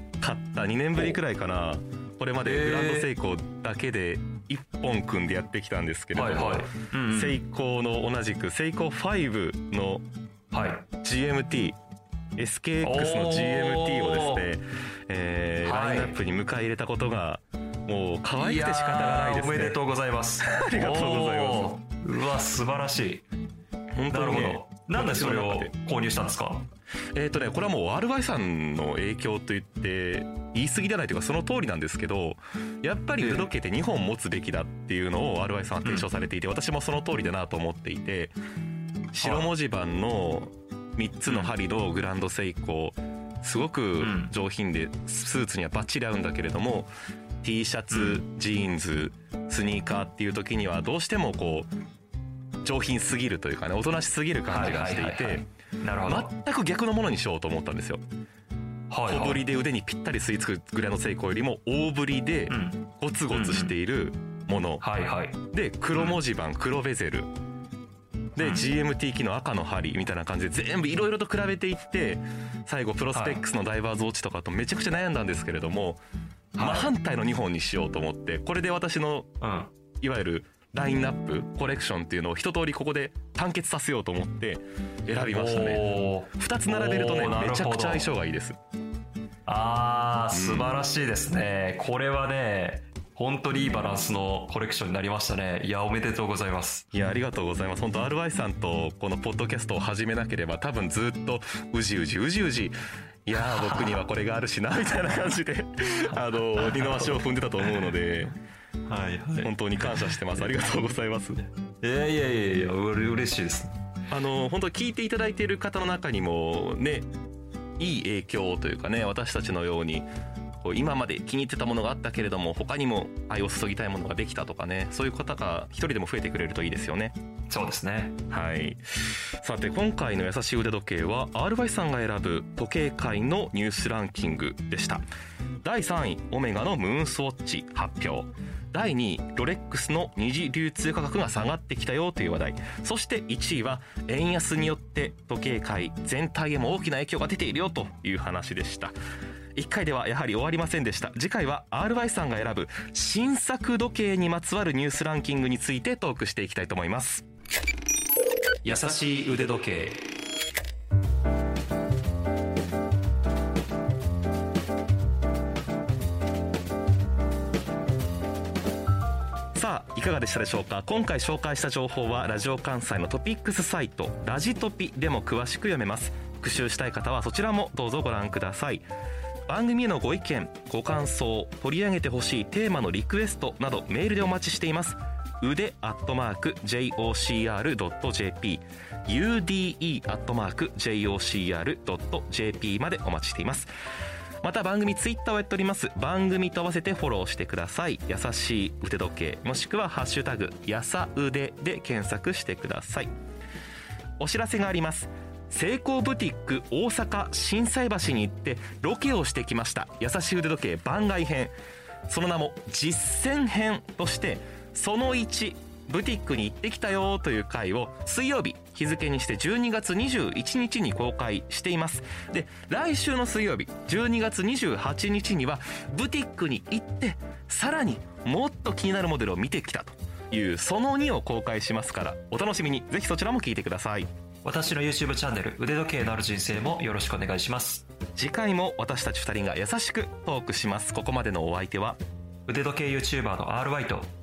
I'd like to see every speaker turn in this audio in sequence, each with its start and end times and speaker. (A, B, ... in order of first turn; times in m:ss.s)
0:00.2-0:10.0 A
0:02.4-0:03.1 B
0:06.1-0:07.4 B
0:10.5-0:10.9 B
0:11.0-0:11.8 A
0:12.4-0:19.8 A
0:12.8-0:14.4 B
0:15.6-0:16.2 B
0:18.3-0:23.2 B
0:20.4-0:21.7 A
0:24.0-0:25.7 A
0:24.1-0:26.6 B
0:27.1-0:38.3 A
0:33.2-0:33.5 B
0:39.1-0:46.9 A
0:39.2-0:39.5 B
0:41.3-0:41.5 B
0:44.0-0:44.3 B
0:47.4-0:51.7 A
0:47.9-0:48.2 B
0:52.6-0:55.4 A
0:54.4-0:56.3 B
0:56.0-0:58.0 A
0:58.9-0:59.4 B
0:59.1-1:04.8 A
1:02.5-1:03.7 B
1:04.8-1:05.4 B
1:05.5-1:07.3 A
1:05.9-1:06.2 B
1:08.4-1:16.0 A
1:08.4-1:08.7 B
1:13.1-1:13.4 B
1:16.6-1:16.9 B
1:16.6-1:19.3 A
1:19.4-1:19.7 B
1:20.0-1:28.6 A
1:25.3-1:28.1 B
1:29.4-1:36.8 B
1:30.3-1:30.7 A
1:36.9-1:42.7 A
1:43.2-1:48.3 A
1:43.4-1:44.0 B
1:46.6-1:47.9 B
1:48.9-1:50.2 B
1:49.4-1:51.4 A
1:51.8-1:53.7 B
1:54.1-1:57.1 A
1:57.8-2:00.1 A
2:00.6-2:07.1 A
2:07.5-2:08.2 B
2:08.3-2:15.0 A
2:15.6-2:28.9 A
2:29.6-2:37.2 A
2:38.6-2:40.1 B
2:49.5-2:58.8 A
2:59.5-3:13.7 A
3:14.4-3:23.1 A
3:24.2-3:31.5 A
3:32.1-3:54.1 A
3:54.4-3:57.9 B
3:58.2-4:02.0 A
4:02.5-4:04.1 B